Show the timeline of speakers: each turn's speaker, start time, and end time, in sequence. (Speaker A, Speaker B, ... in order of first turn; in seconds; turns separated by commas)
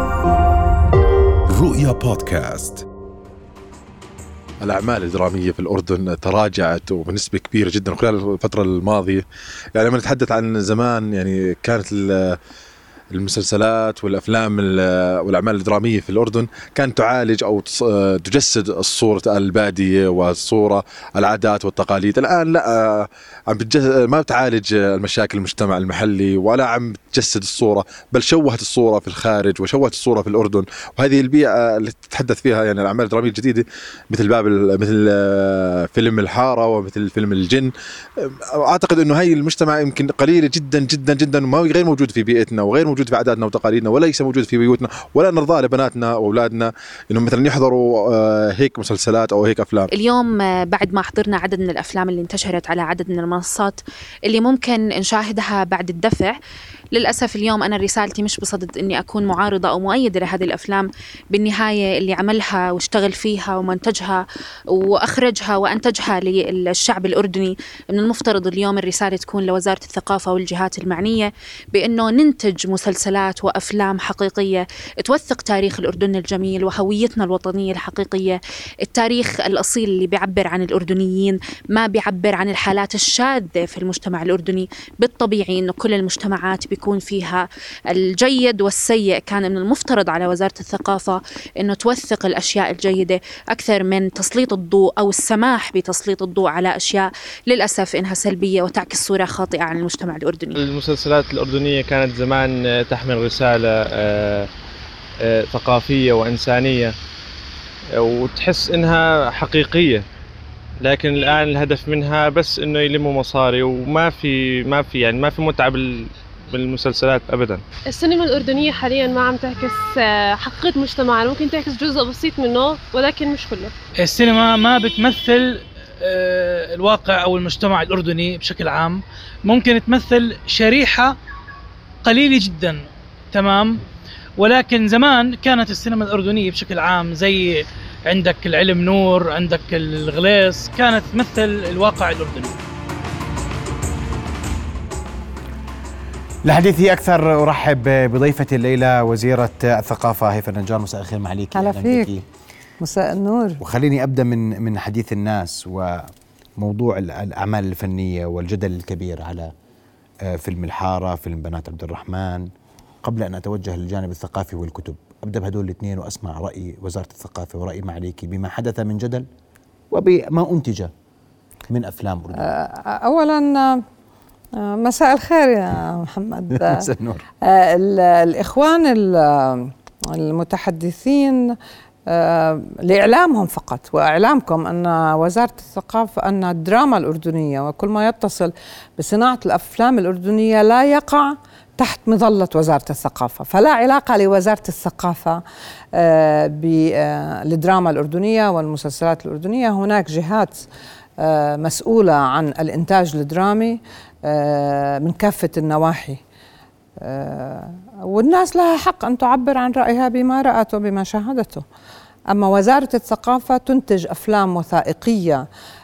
Speaker A: 1.5-2.8, Speaker B: 4.6-9.2, Speaker B: 9.8-12.4, Speaker B: 13.1-49.9, Speaker C: 49.9-56.3, Speaker C: 56.9-100.6, Speaker D: 100.5-104.5, Speaker D: 105.2-106.9, Speaker D: 107.9-110.0, Speaker D: 110.8-117.6, Speaker E: 117.9-123.7, Speaker F: 124.0-131.2, Speaker F: 132.0-133.8, Speaker F: 134.4-142.6, Speaker A: 146.4-152.2, Speaker G: 151.5-152.1, Speaker G: 152.8-153.6, Speaker A: 153.6-159.5, Speaker A: 160.2-162.5, Speaker A: 163.0-169.3, Speaker A: 169.9-170.9, Speaker A: 171.7-172.5, Speaker G: 172.3-173.8, Speaker G: 174.5-176.9, Speaker A: 176.5-177.2, Speaker G: 177.4-195.4, Speaker G: 195.9-200.7, Speaker G: 201.2-206.2, Speaker G: 207.0-211.7, Speaker G: 212.3-215.5